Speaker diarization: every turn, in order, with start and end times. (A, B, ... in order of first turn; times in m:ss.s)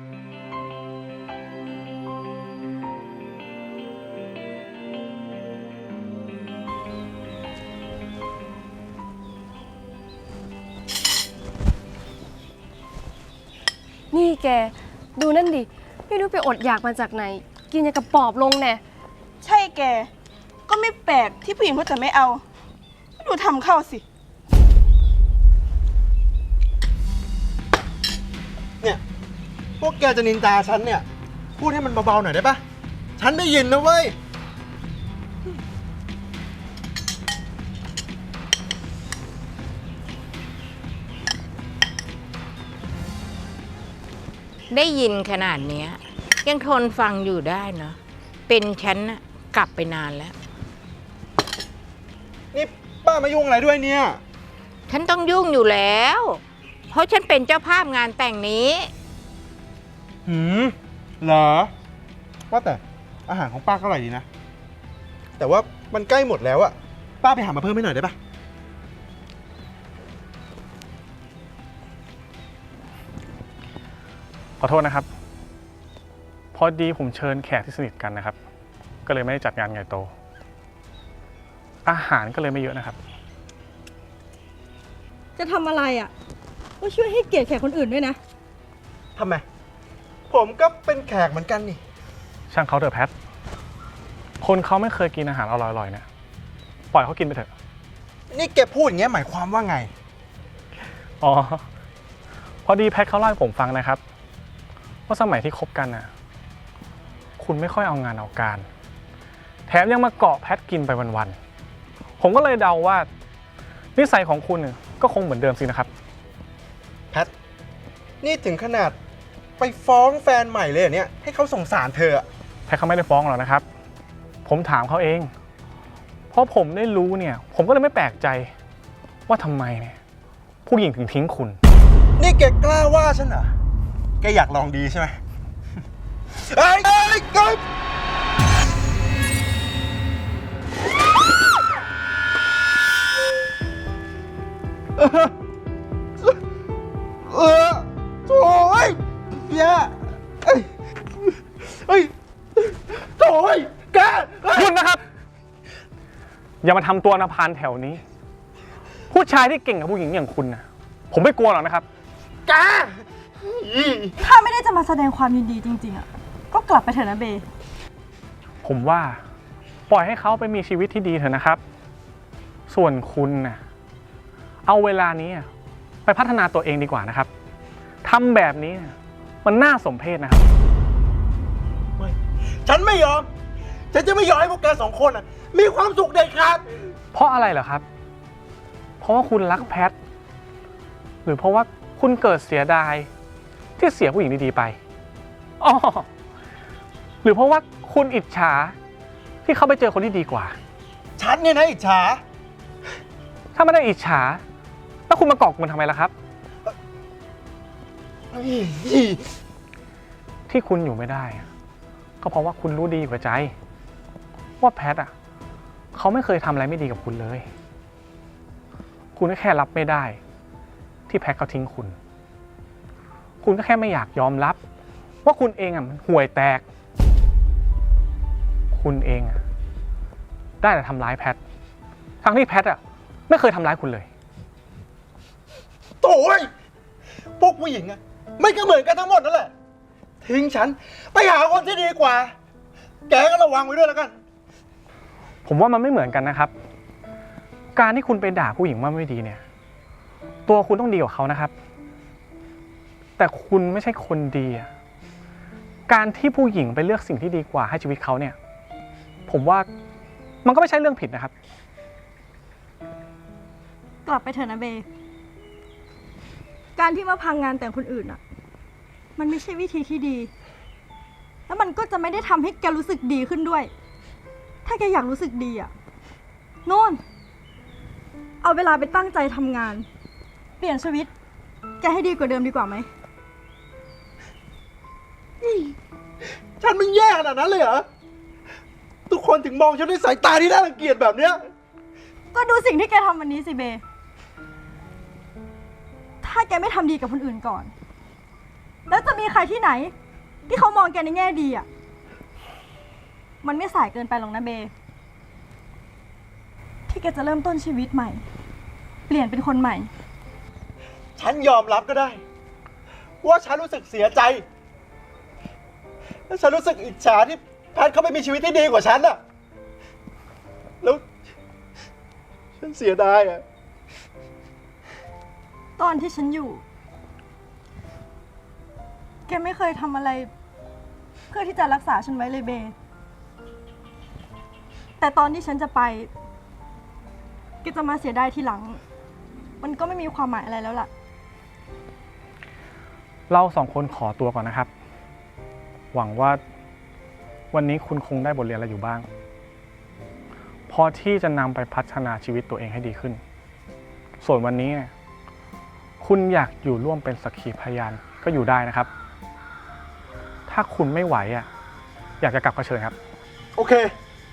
0:14.1-0:18.8 A
0:19.4-0:20.1 B
0:20.7-0:22.4 B
0:23.2-0:24.0 B
0:29.8-0:31.0 C
0:31.6-0:32.6 C
0:33.2-0:34.2 C
0:44.7-0:48.0 D
0:48.5-0:50.3 D
0:52.5-0:54.2 C
0:54.9-0:58.9 D
1:00.2-1:01.7 C
1:02.5-1:04.2 C
1:05.4-1:08.2 C
1:14.6-1:15.1 E
1:16.5-1:18.4 E
1:19.0-1:20.1 E
1:21.8-1:23.0 E
1:25.4-1:26.1 F
1:26.8-1:28.2 F
1:29.2-1:29.4 C
1:30.3-1:31.8 C
1:32.5-1:33.1 E
1:34.4-1:36.0 E
1:36.9-1:37.5 E
1:38.3-1:39.9 C
1:41.2-1:41.6 E
1:42.6-1:44.0 E
1:45.1-1:46.1 E
1:47.4-1:48.6 E
1:49.7-1:51.4 E
1:52.2-1:53.1 E
1:54.0-1:55.9 E
1:58.2-1:59.0 C
1:59.6-2:02.2 C
2:02.7-2:03.6 E
2:04.4-2:05.3 E
2:06.3-2:08.5 E
2:09.3-2:10.0 E
2:10.6-2:11.6 E
2:12.2-2:13.5 C
2:14.2-2:15.2 C
2:16.3-2:17.6 C
2:25.0-2:25.3 C
2:27.3-2:30.7 C
2:31.2-2:34.7 C
2:34.5-2:35.0 E
2:36.6-2:38.0 E
2:39.1-2:41.8 E
2:42.4-2:44.2 C
2:44.2-2:47.4 F
2:48.6-2:49.2 E
2:49.9-2:51.6 E
2:52.7-2:53.6 E
2:54.6-2:55.5 E
2:56.0-2:57.3 E
2:58.0-3:00.4 E
3:02.0-3:03.3 C
3:03.9-3:06.6 C
3:07.1-3:07.8 E
3:09.0-3:09.9 E
3:11.2-3:13.1 E
3:13.8-3:14.8 E
3:15.6-3:16.1 E
3:17.2-3:18.7 E
3:19.4-3:20.5 E
3:21.2-3:22.2 C
3:23.5-3:24.4 E
3:25.1-3:26.1 E
3:28.3-3:29.3 C
3:30.5-3:31.4 E
3:32.2-3:33.5 E
3:34.6-3:35.1 E
3:35.9-3:37.4 E
3:39.1-3:40.2 E
3:41.1-3:41.9 E
3:43.4-3:44.6 E
3:45.2-3:46.6 E
3:48.7-3:49.4 E
3:50.6-3:51.4 E
3:52.2-3:54.0 E
3:56.0-3:56.5 C
3:57.4-3:59.5 C
4:00.2-4:02.3 C
4:03.1-4:04.1 C
4:05.4-4:06.5 E
4:07.8-4:09.4 E
4:10.5-4:11.5 E
4:13.2-4:14.7 E
4:15.9-4:18.4 E
4:19.3-4:19.7 E
4:20.4-4:21.3 E
4:24.0-4:24.8 F
4:26.8-4:28.2 F
4:29.2-4:30.3 F
4:31.5-4:33.7 F
4:34.6-4:35.7 F
4:36.6-4:37.0 F
4:38.4-4:39.9 F
4:40.6-4:41.1 F
4:41.8-4:42.9 F
4:45.4-4:45.7 C
4:46.6-4:47.8 C
4:49.1-4:51.4 C
4:52.3-4:53.8 F
4:56.2-4:57.7 F
4:58.9-4:59.9 F
5:00.5-5:01.7 F
5:03.4-5:04.7 F
5:06.9-5:08.2 F
5:09.1-5:09.9 F
5:11.2-5:12.2 C
5:13.2-5:14.4 C
5:16.3-5:19.2 C
5:22.6-5:23.4 C
5:25.8-5:26.6 F
5:29.3-5:30.3 F
5:31.3-5:32.7 F
5:35.0-5:36.1 F
5:37.6-5:38.8 F
5:39.6-5:40.9 F
5:43.3-5:44.7 E
5:45.9-5:46.4 E
5:47.5-5:49.0 E
5:50.7-5:53.2 E
5:54.2-5:54.9 E
5:56.0-5:58.9 E
6:00.5-6:01.5 E
6:02.2-6:02.9 E
6:03.6-6:03.9 C